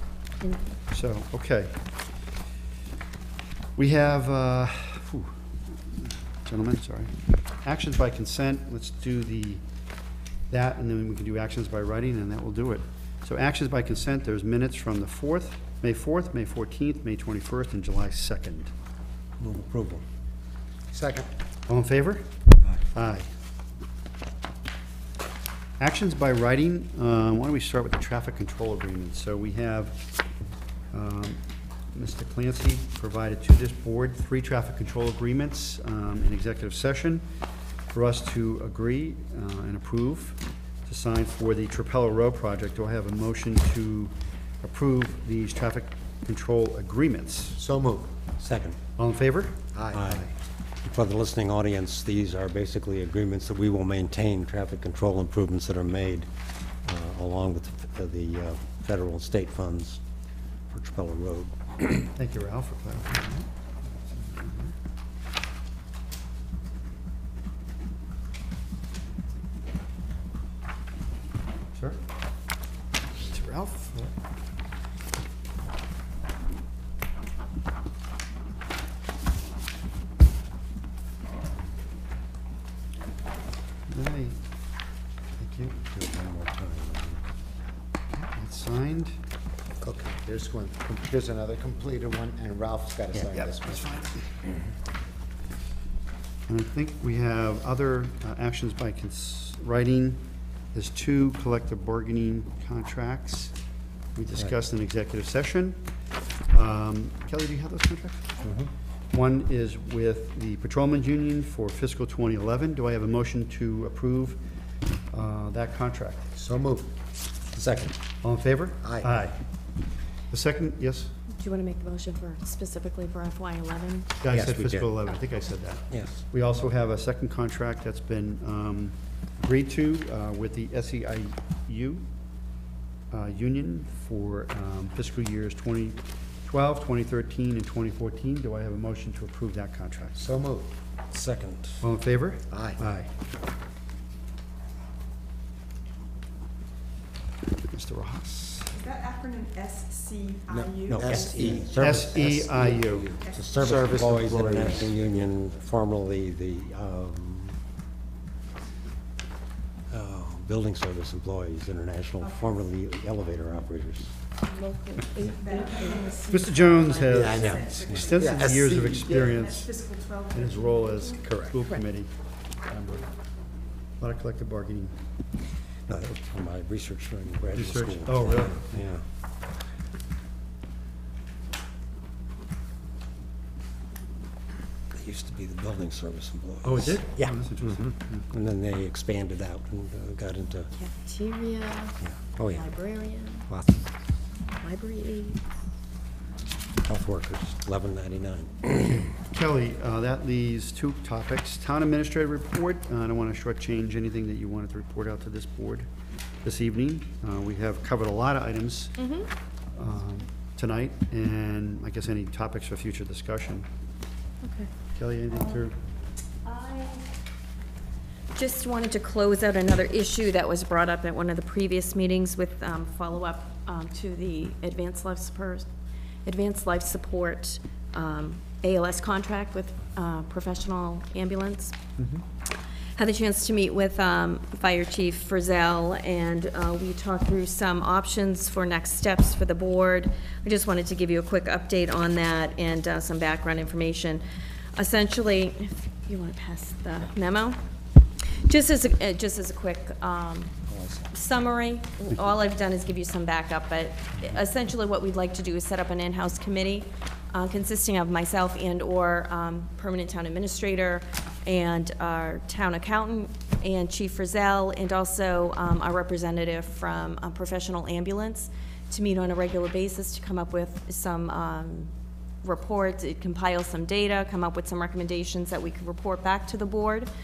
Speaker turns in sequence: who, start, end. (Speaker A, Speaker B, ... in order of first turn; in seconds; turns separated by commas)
Speaker A: 0.4-0.7, Speaker B: 0.9-1.8, Speaker B: 3.8-7.1, Speaker B: 7.6-9.6, Speaker B: 10.5-18.7, Speaker C: 19.4-20.0, Speaker D: 20.9-21.3, Speaker B: 21.7-22.2, Speaker B: 22.9-23.3, Speaker B: 25.8-30.0, Speaker B: 30.9-31.4, Speaker B: 31.9-37.2, Speaker B: 37.9-47.6, Speaker D: 47.6-48.1, Speaker C: 48.4-48.8, Speaker B: 49.0-50.3, Speaker D: 49.7-50.1, Speaker C: 49.9-50.3, Speaker C: 50.8-56.3, Speaker C: 56.9-60.0, Speaker C: 60.7-62.1, Speaker B: 62.2-63.5, Speaker B: 64.1-64.7, Speaker B: 73.2-74.1, Speaker B: 83.9-84.4, Speaker B: 85.4-85.8, Speaker C: 85.8-87.2, Speaker B: 88.1-89.2, Speaker C: 89.8-90.1, Speaker D: 90.1-93.9, Speaker B: 93.2-94.2, Speaker B: 96.5-100.2, Speaker B: 100.7-103.5, Speaker B: 104.2-105.8, Speaker B: 106.5-108.4, Speaker C: 108.4-108.7, Speaker B: 109.1-114.4, Speaker B: 115.1-116.3, Speaker D: 116.4-116.9, Speaker C: 117.5-117.9, Speaker B: 118.2-119.4, Speaker B: 120.3-121.1, Speaker A: 121.3-124.2, Speaker B: 124.2-132.0, Speaker C: 124.3-124.9, Speaker C: 125.9-126.2, Speaker B: 133.1-140.2, Speaker D: 140.2-140.7, Speaker C: 141.1-141.9, Speaker B: 141.8-143.1, Speaker D: 142.5-142.8, Speaker B: 147.7-148.7, Speaker E: 148.7-151.4, Speaker D: 150.5-151.7, Speaker C: 150.9-157.6, Speaker B: 151.7-153.1, Speaker E: 153.2-153.6, Speaker D: 153.6-154.9, Speaker C: 159.9-164.1, Speaker A: 164.5-166.3, Speaker E: 165.4-168.2, Speaker B: 166.2-169.8, Speaker C: 167.1-168.4, Speaker D: 168.2-169.4, Speaker E: 169.5-170.8, Speaker B: 170.3-172.1, Speaker B: 172.7-173.1, Speaker B: 174.0-174.9, Speaker C: 175.9-179.0, Speaker B: 177.6-178.7, Speaker C: 184.9-190.7, Speaker B: 186.6-188.2, Speaker A: 190.8-192.0, Speaker C: 192.0-192.7, Speaker A: 192.5-193.5, Speaker C: 193.5-193.9, Speaker A: 194.6-195.4, Speaker C: 196.8-199.1, Speaker B: 198.8-205.9, Speaker B: 206.4-209.0, Speaker A: 209.0-209.3, Speaker B: 209.8-213.7, Speaker A: 214.4-214.7, Speaker B: 215.0-215.7, Speaker A: 215.3-215.7, Speaker A: 216.4-217.1, Speaker A: 218.3-225.7, Speaker A: 226.2-231.8, Speaker A: 233.0-244.2, Speaker A: 244.8-247.6, Speaker A: 248.2-271.9, Speaker C: 250.7-251.0, Speaker A: 272.4-277.1